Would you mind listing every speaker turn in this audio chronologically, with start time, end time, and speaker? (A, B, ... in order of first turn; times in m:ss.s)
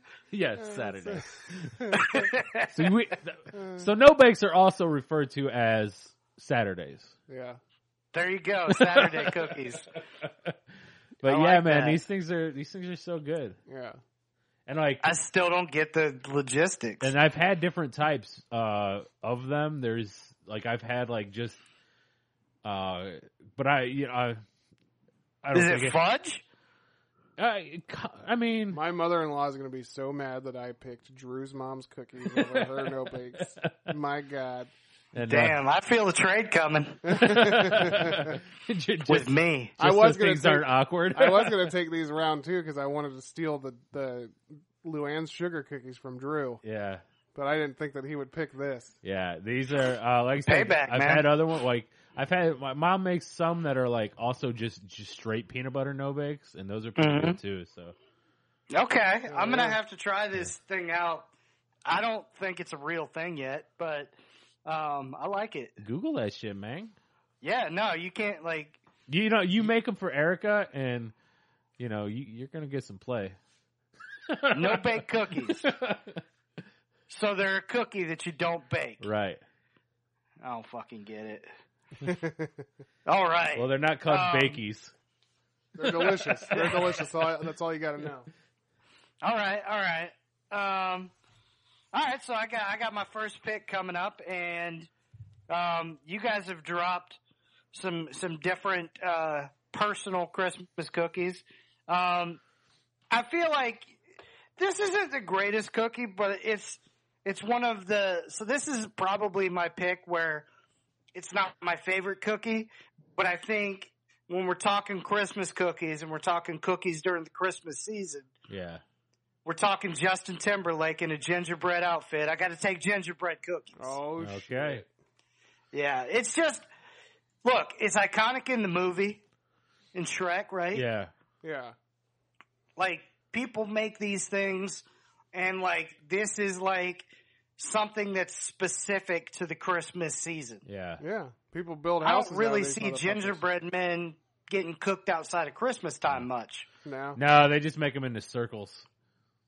0:00.3-0:01.9 A
0:00.7-0:01.2 B
0:01.8-0:02.1 B
0:01.9-0:02.7 C
0:02.7-0:07.1 A
0:03.5-0:03.9 B
0:07.3-0:07.6 B
0:08.1-0:09.9 C
0:08.7-0:09.5 A
0:10.2-0:10.6 A
0:11.2-0:13.6 A
0:11.2-0:12.0 C
0:13.7-0:14.0 B
0:14.7-0:15.2 A
0:15.0-0:17.1 C
0:17.0-0:21.6 A
0:22.6-0:24.4 A
0:25.4-0:26.0 A
0:25.5-0:26.4 C
0:27.4-0:28.8 A
0:28.7-0:34.7 B
0:32.2-0:32.8 A
0:33.3-0:33.7 A
0:35.1-0:35.6 A
0:35.2-0:37.0 C
0:37.0-0:38.4 B
0:37.1-0:41.7 A
0:39.1-0:39.7 C
0:39.8-0:46.6 B
0:46.6-0:47.0 A
0:47.3-0:49.0 B
0:49.0-0:57.9 A
0:50.4-0:51.3 C
0:57.0-0:57.4 C
0:58.7-1:01.3 C
0:59.3-0:59.8 B
1:01.8-1:04.1 C
1:04.6-1:05.8 C
1:05.8-1:06.9 A
1:07.4-1:08.8 C
1:09.1-1:11.1 A
1:11.8-1:13.4 A
1:14.3-1:16.2 A
1:14.5-1:15.7 C
1:17.1-1:19.0 C
1:19.0-1:19.4 A
1:20.4-1:21.5 C
1:22.0-1:22.6 B
1:23.0-1:24.6 C
1:23.6-1:24.9 A
1:25.7-1:28.3 B
1:25.8-1:26.7 A
1:29.2-1:31.1 C
1:31.9-1:34.9 C
1:35.5-1:37.2 C
1:37.7-1:42.4 C
1:43.1-1:44.0 C
1:44.6-1:50.5 C
1:51.1-1:58.3 C
1:58.5-1:58.8 A
1:59.4-2:04.0 C
2:03.8-2:04.9 B
2:04.2-2:04.8 A
2:05.7-2:06.7 C
2:07.4-2:09.2 C
2:09.9-2:10.8 C
2:10.7-2:11.1 A
2:11.4-2:11.8 B
2:12.8-2:20.6 C
2:20.6-2:21.0 A
2:21.0-2:23.4 B
2:22.0-2:26.7 C
2:26.8-2:27.2 B
2:27.2-2:28.9 A